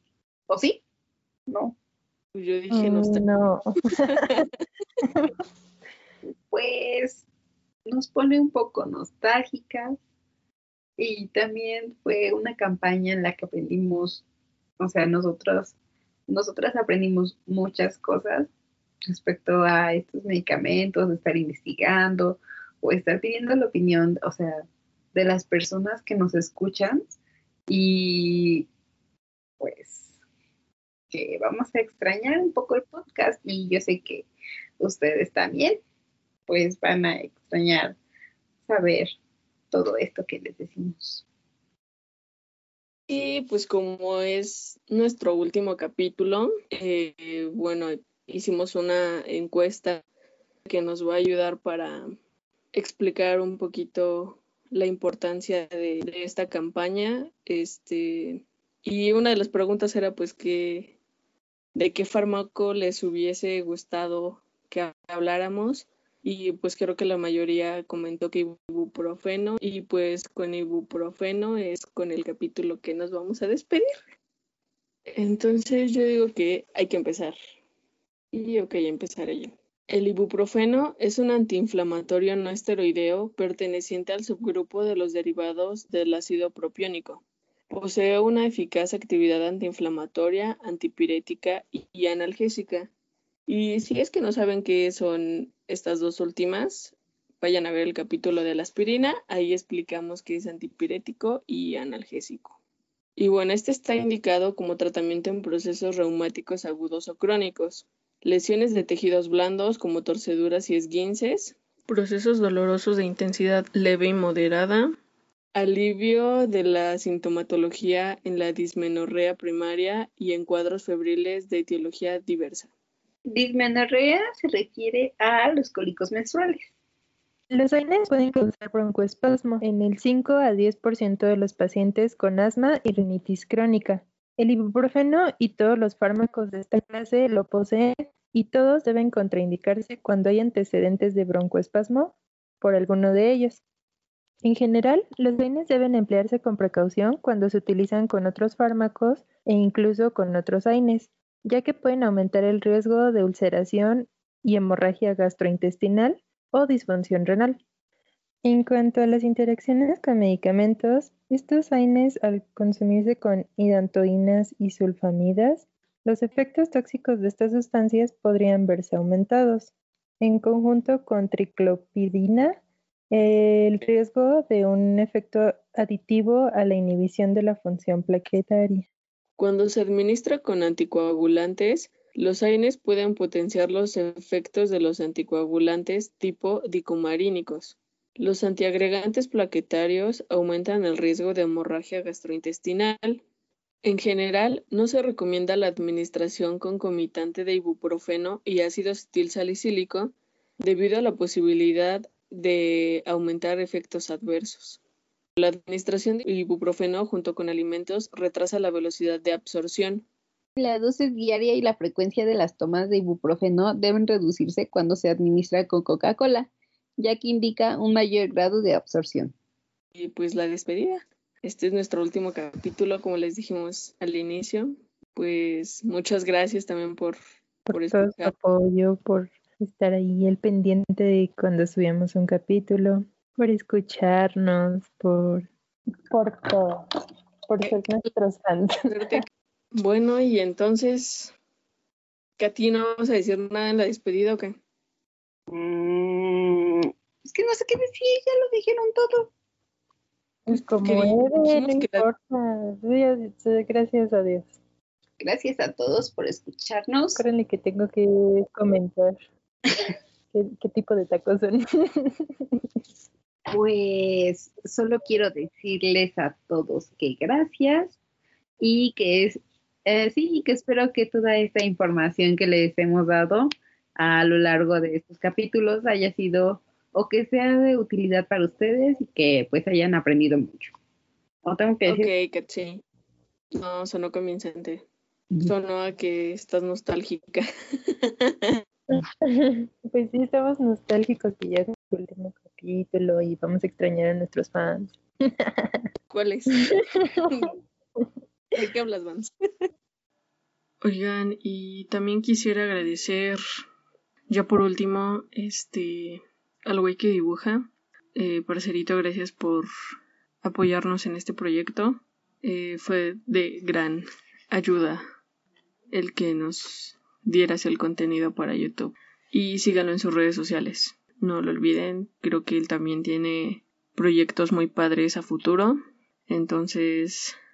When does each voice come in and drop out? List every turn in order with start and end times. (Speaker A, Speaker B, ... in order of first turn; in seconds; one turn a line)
Speaker A: 0.5-0.8
Speaker A: 1.5-1.7
Speaker B: 2.3-3.3
Speaker C: 2.7-4.4
Speaker C: 5.0-5.3
Speaker A: 6.5-7.2
Speaker A: 7.9-10.0
Speaker A: 11.0-14.2
Speaker A: 14.8-15.7
Speaker A: 16.3-18.5
Speaker A: 19.1-27.0
Speaker A: 27.7-28.7
Speaker A: 29.6-30.1
Speaker A: 31.1-34.3
Speaker A: 34.8-35.8
Speaker A: 36.5-38.0
Speaker A: 38.6-39.1
Speaker A: 39.7-41.2
Speaker B: 43.1-50.0
Speaker B: 50.6-52.0
Speaker B: 52.7-61.0
Speaker B: 61.7-73.8
Speaker B: 75.1-77.3
Speaker B: 78.3-92.9
Speaker B: 93.5-102.6
Speaker B: 103.2-114.9
Speaker B: 115.5-122.7
Speaker A: 123.3-126.7
Speaker C: 127.5-143.6
Speaker C: 144.4-157.6
Speaker C: 158.4-172.6
Speaker C: 173.1-178.9
Speaker B: 179.4-193.2
Speaker B: 193.8-204.8
Speaker B: 205.4-210.1
Speaker A: 210.6-219.3
Speaker B: 219.9-228.3
Speaker C: 227.7-235.5
Speaker C: 236.1-236.8
Speaker C: 237.5-238.7
Speaker B: 238.9-241.3
Speaker B: 242.4-244.6
Speaker A: 245.5-249.3
Speaker C: 250.5-254.6
Speaker B: 250.5-252.0
Speaker A: 255.2-257.2
Speaker C: 257.1-259.2
Speaker C: 260.3-262.1
Speaker A: 263.5-267.9
Speaker A: 268.6-280.7
Speaker A: 281.4-282.1
Speaker B: 281.9-282.8
Speaker B: 283.5-284.8
Speaker B: 285.4-287.4
Speaker B: 288.0-288.6
Speaker C: 289.2-295.8
Speaker B: 296.1-297.5
Speaker C: 296.6-297.4
Speaker B: 298.5-299.3
Speaker B: 300.8-303.4
Speaker B: 304.3-309.7
Speaker B: 310.4-315.0
Speaker B: 315.9-325.8
Speaker B: 326.3-327.4